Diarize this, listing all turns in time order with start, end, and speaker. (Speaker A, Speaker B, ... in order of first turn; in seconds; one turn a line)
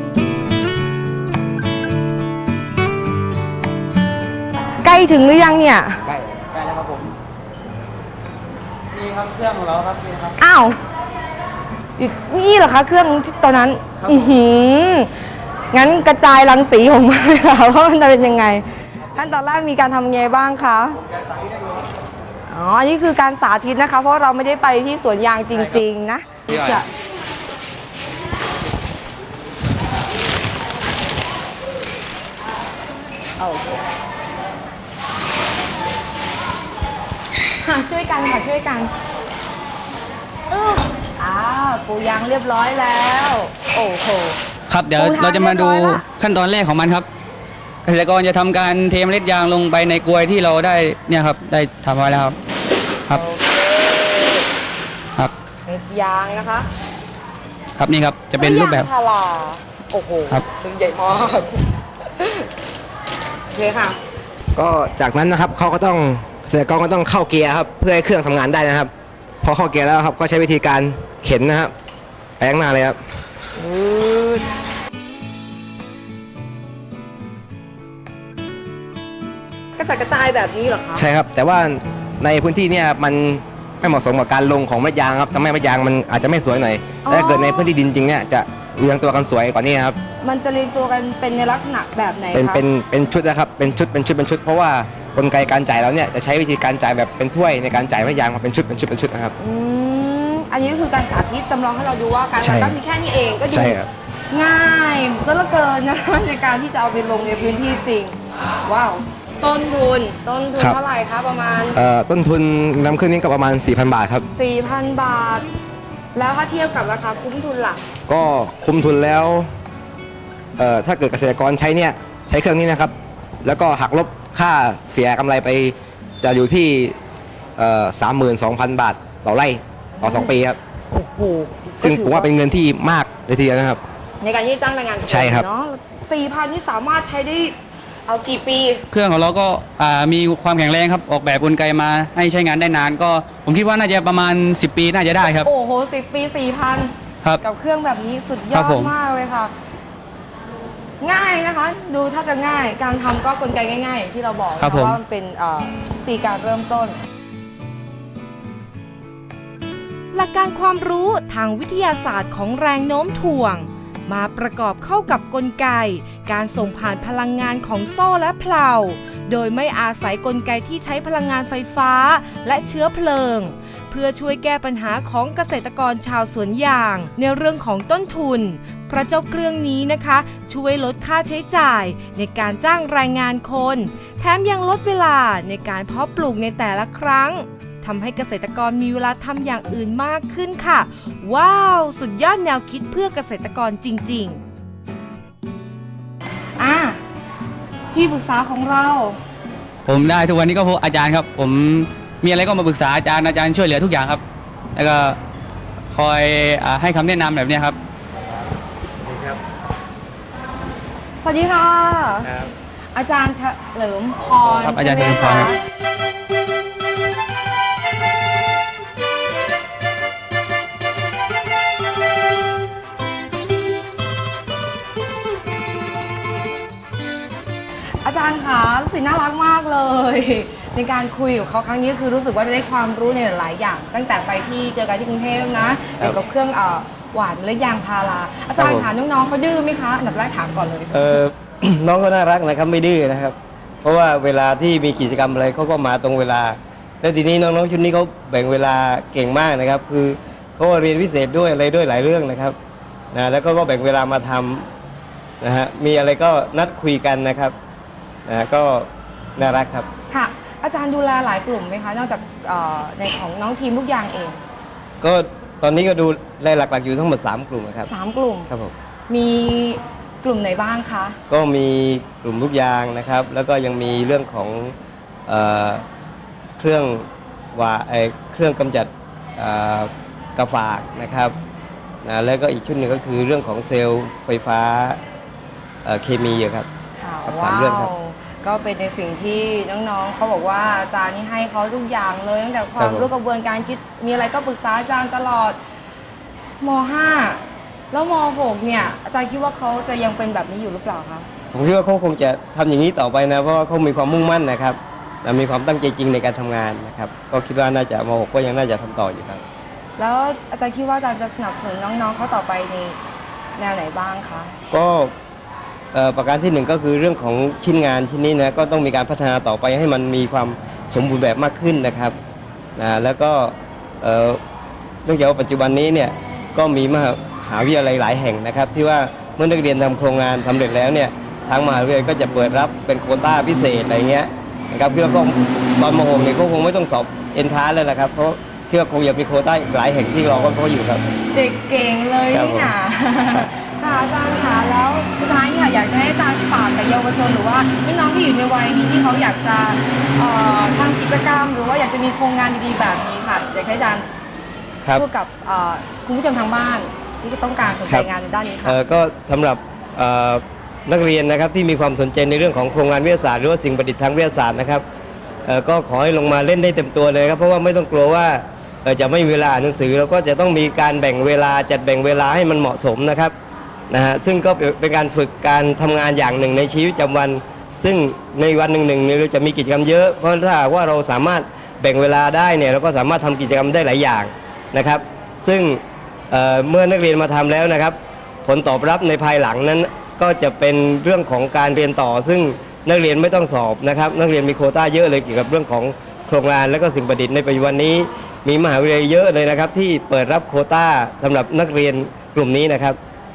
Speaker A: 4.8-6.0
Speaker B: 6.1-7.1
Speaker B: 8.9-10.3
Speaker A: 10.4-10.8
Speaker A: 12.0-15.1
Speaker A: 15.7-21.0
Speaker A: 22.5-26.9
Speaker B: 26.5-26.7
Speaker A: 33.4-33.8
Speaker A: 37.6-38.9
Speaker A: 40.5-44.4
Speaker B: 44.7-47.1
Speaker A: 45.0-46.0
Speaker B: 47.8-52.4
Speaker A: 53.2-54.5
Speaker A: 55.6-56.7
Speaker B: 57.8-58.9
Speaker A: 58.4-62.5
Speaker A: 63.5-64.0
Speaker C: 64.5-68.9
Speaker C: 69.4-71.7
Speaker C: 72.4-73.0
Speaker A: 73.6-74.4
Speaker A: 79.8-81.0
Speaker C: 80.9-90.0
Speaker A: 87.0-87.7
Speaker A: 90.2-92.6
Speaker C: 92.3-99.3
Speaker A: 99.4-103.8
Speaker C: 102.4-102.8
Speaker C: 103.5-103.9
Speaker A: 104.3-111.8
Speaker C: 111.7-114.3
Speaker A: 114.3-115.5
Speaker A: 116.1-117.8
Speaker C: 118.1-119.5
Speaker C: 120.6-127.0
Speaker C: 127.6-130.6
Speaker A: 130.0-130.3
Speaker D: 131.0-132.2
Speaker A: 131.2-131.6
Speaker C: 131.8-133.8
Speaker A: 134.2-138.8
Speaker C: 135.1-135.5
Speaker B: 138.9-145.5
Speaker A: 145.4-149.5
Speaker B: 148.5-148.9
Speaker A: 151.0-157.0
Speaker B: 154.6-155.0
Speaker D: 160.1-194.4
Speaker A: 196.6-197.0
Speaker A: 197.9-199.2
Speaker B: 199.8-204.2
Speaker B: 204.7-205.2
Speaker B: 205.9-207.8
Speaker E: 209.0-209.4
Speaker A: 211.2-212.3
Speaker E: 212.2-212.5
Speaker A: 212.9-215.6
Speaker B: 214.2-215.6
Speaker A: 228.0-241.1
Speaker E: 235.9-236.2
Speaker E: 238.6-238.9
Speaker E: 240.9-252.6
Speaker E: 253.1-254.7
Speaker E: 255.4-257.5
Speaker E: 258.2-259.9
Speaker A: 260.1-264.4
Speaker E: 265.0-267.9
Speaker A: 267.9-268.5
Speaker A: 269.1-271.2
Speaker E: 271.3-274.7
Speaker E: 275.3-275.8
Speaker E: 276.6-281.3
Speaker E: 282.0-285.0
Speaker E: 285.8-286.7
Speaker A: 287.0-295.6
Speaker E: 287.2-287.9
Speaker E: 292.8-293.1
Speaker A: 296.6-301.3
Speaker E: 301.5-309.4
Speaker A: 310.0-313.0
Speaker A: 313.6-314.5
Speaker E: 314.7-315.1
Speaker E: 315.9-322.1
Speaker E: 322.8-324.4
Speaker E: 325.0-341.0
Speaker A: 341.3-354.1
Speaker E: 342.3-342.8
Speaker A: 354.9-358.8
Speaker E: 358.6-364.8
Speaker E: 365.4-373.3
Speaker E: 373.9-403.0